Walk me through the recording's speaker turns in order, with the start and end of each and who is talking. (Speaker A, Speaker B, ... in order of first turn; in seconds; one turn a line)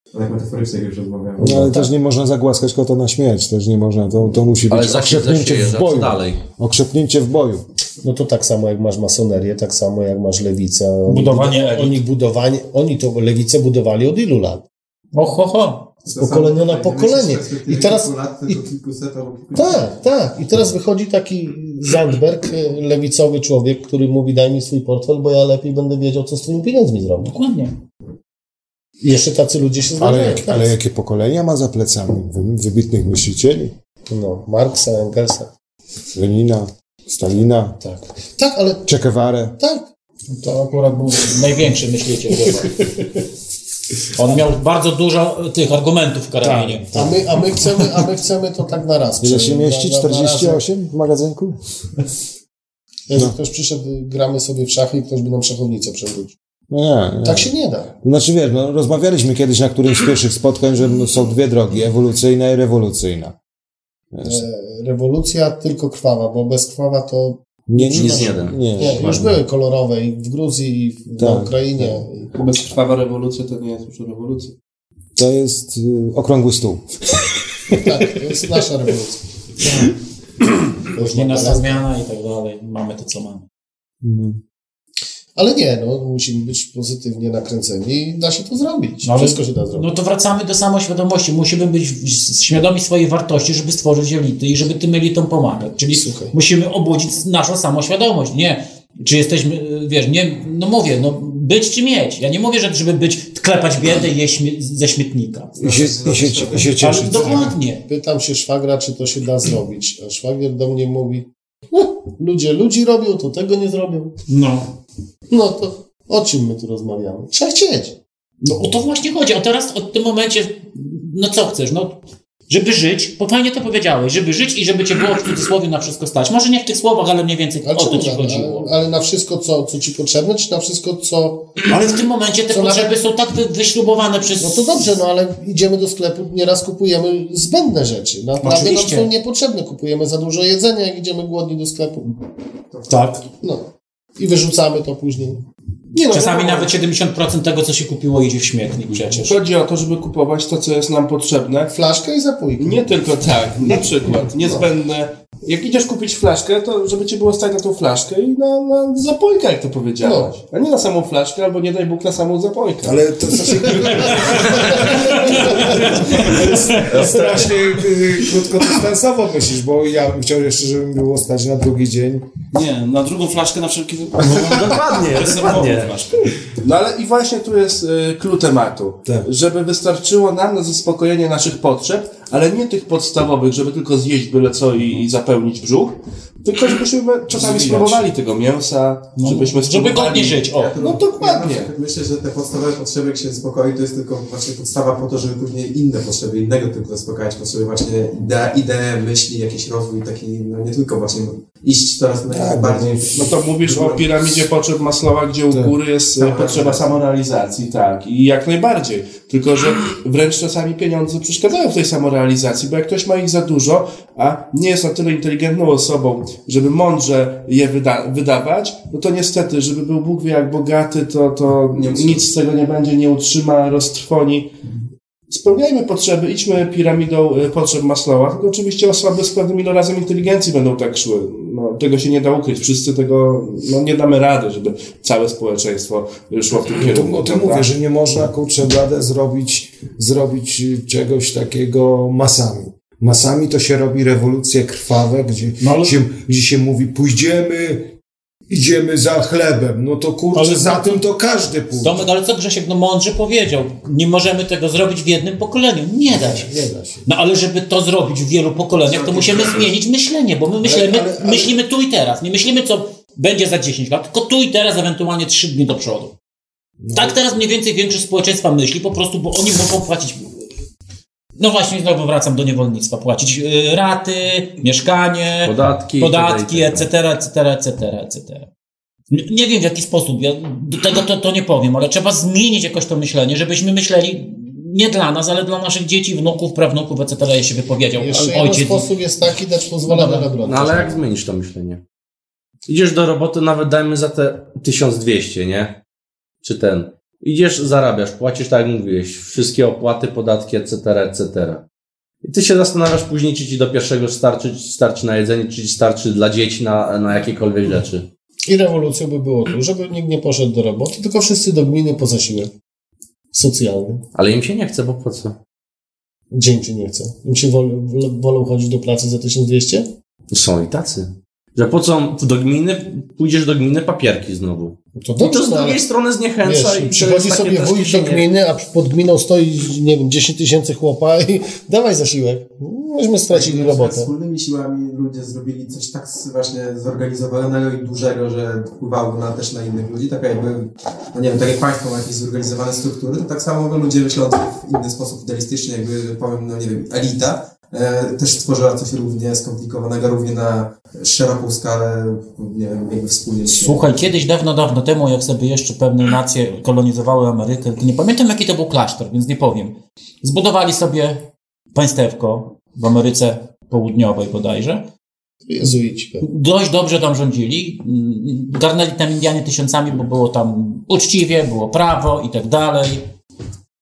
Speaker A: 0.1-1.7
Speaker B: 1.4-7.7
Speaker C: 1.5-1.9
Speaker D: 4.7-6.4
Speaker C: 8.0-14.6
Speaker E: 11.1-12.0
Speaker E: 15.1-15.9
Speaker C: 16.1-18.6
Speaker A: 16.1-19.9
Speaker C: 19.6-27.3
Speaker E: 27.2-27.8
Speaker C: 29.0-30.8
Speaker B: 30.0-33.7
Speaker C: 34.1-35.5
Speaker B: 36.1-37.8
Speaker C: 37.8-38.9
Speaker B: 38.9-39.6
Speaker C: 39.6-39.9
Speaker E: 40.3-42.8
Speaker E: 44.1-46.9
Speaker B: 46.4-47.3
Speaker C: 46.9-50.6
Speaker B: 49.2-51.6
Speaker C: 53.1-56.3
Speaker B: 56.7-57.5
Speaker C: 57.2-57.9
Speaker B: 58.0-63.4
Speaker B: 64.1-64.5
Speaker C: 64.2-67.4
Speaker B: 67.7-69.4
Speaker D: 67.8-69.0
Speaker C: 68.0-72.3
Speaker B: 71.2-72.0
Speaker F: 72.3-74.5
Speaker B: 75.2-77.8
Speaker C: 77.7-79.2
Speaker C: 80.9-81.8
Speaker E: 80.9-83.4
Speaker B: 84.0-84.4
Speaker C: 85.4-89.9
Speaker E: 89.0-105.5
Speaker C: 95.9-96.3
Speaker B: 105.6-107.6
Speaker A: 105.6-106.8
Speaker E: 106.8-107.8
Speaker C: 107.9-114.1
Speaker E: 114.3-114.7
Speaker C: 115.3-118.0
Speaker E: 118.4-128.7
Speaker C: 127.6-131.7
Speaker E: 131.7-134.6
Speaker C: 132.5-133.0
Speaker C: 134.4-142.1
Speaker E: 138.4-139.1
Speaker E: 142.9-143.2
Speaker C: 143.4-146.7
Speaker E: 146.1-149.4
Speaker F: 149.1-151.7
Speaker C: 151.7-152.9
Speaker F: 152.6-166.5
Speaker C: 160.0-160.4
Speaker B: 162.8-172.3
Speaker C: 163.9-164.1
Speaker E: 165.0-165.7
Speaker C: 165.4-165.8
Speaker C: 166.8-167.4
Speaker G: 172.5-176.1
Speaker D: 174.2-175.9
Speaker F: 175.3-175.9
Speaker F: 176.6-191.7
Speaker E: 189.2-190.7
Speaker A: 190.5-204.5
Speaker B: 202.3-203.2
Speaker F: 203.1-224.6
Speaker B: 205.5-205.8
Speaker A: 206.2-206.9
Speaker A: 221.7-222.3
Speaker F: 225.3-237.7
Speaker B: 236.8-247.9
Speaker E: 245.6-246.0
Speaker B: 248.5-252.0
Speaker E: 250.3-251.0
Speaker E: 251.8-256.5
Speaker B: 256.1-257.1
Speaker E: 257.1-266.1
Speaker A: 258.8-259.7
Speaker B: 260.6-261.5
Speaker B: 266.8-267.2
Speaker E: 266.9-270.3
Speaker E: 271.4-278.5
Speaker D: 275.4-276.9
Speaker E: 279.1-288.9
Speaker C: 288.0-291.0
Speaker D: 289.9-291.8
Speaker D: 292.7-295.8
Speaker D: 296.4-301.6
Speaker D: 302.2-308.1
Speaker C: 308.5-312.5
Speaker C: 313.3-314.0
Speaker D: 314.1-315.4
Speaker C: 316.3-319.9
Speaker D: 320.3-328.3
Speaker C: 325.0-325.9
Speaker C: 326.4-334.1
Speaker A: 333.3-354.1
Speaker E: 353.5-364.9
Speaker C: 365.5-366.2
Speaker E: 366.2-373.1